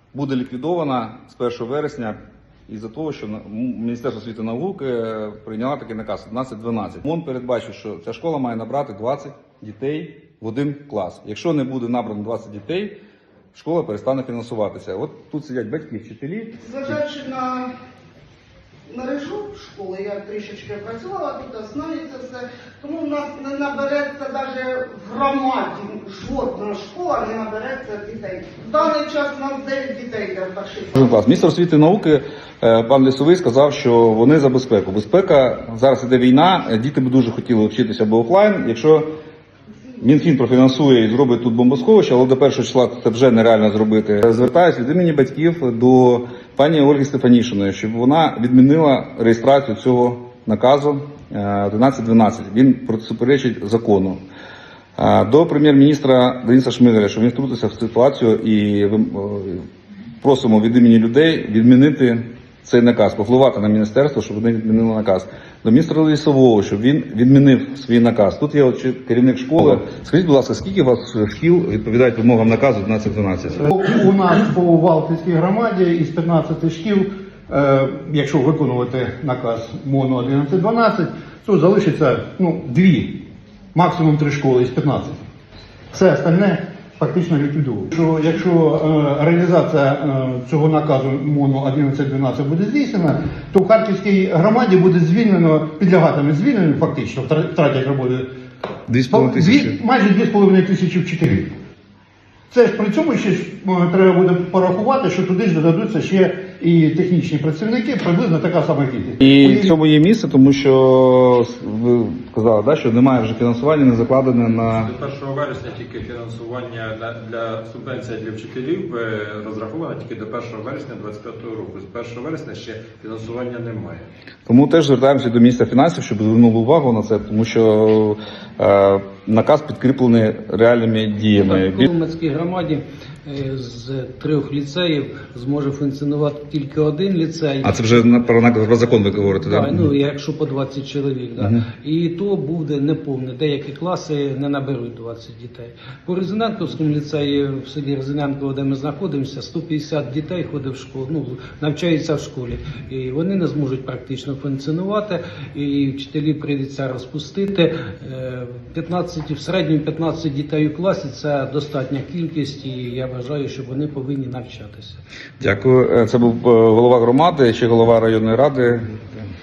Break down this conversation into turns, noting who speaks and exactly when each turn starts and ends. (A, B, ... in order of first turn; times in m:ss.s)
0:00.1-0:13.0 A
0:13.5-0:17.0 A
0:16.6-0:17.7 B
0:18.9-0:31.0 B
0:30.9-0:39.1 A
0:40.0-0:54.2 A
0:55.0-0:59.6 A
1:00.2-1:13.6 A
1:13.6-1:23.2 C
1:23.7-1:25.2 C
1:25.9-1:38.3 C
1:38.9-1:39.7 A
1:39.1-1:41.5 C
1:42.5-1:49.7 C
1:49.2-1:54.9 A
1:54.8-2:04.0 D
2:04.5-2:11.9 A
2:11.4-2:18.1 E
2:17.6-2:19.8 A
2:19.0-2:45.0 E
2:21.4-2:21.6 A
2:45.4-2:48.9 A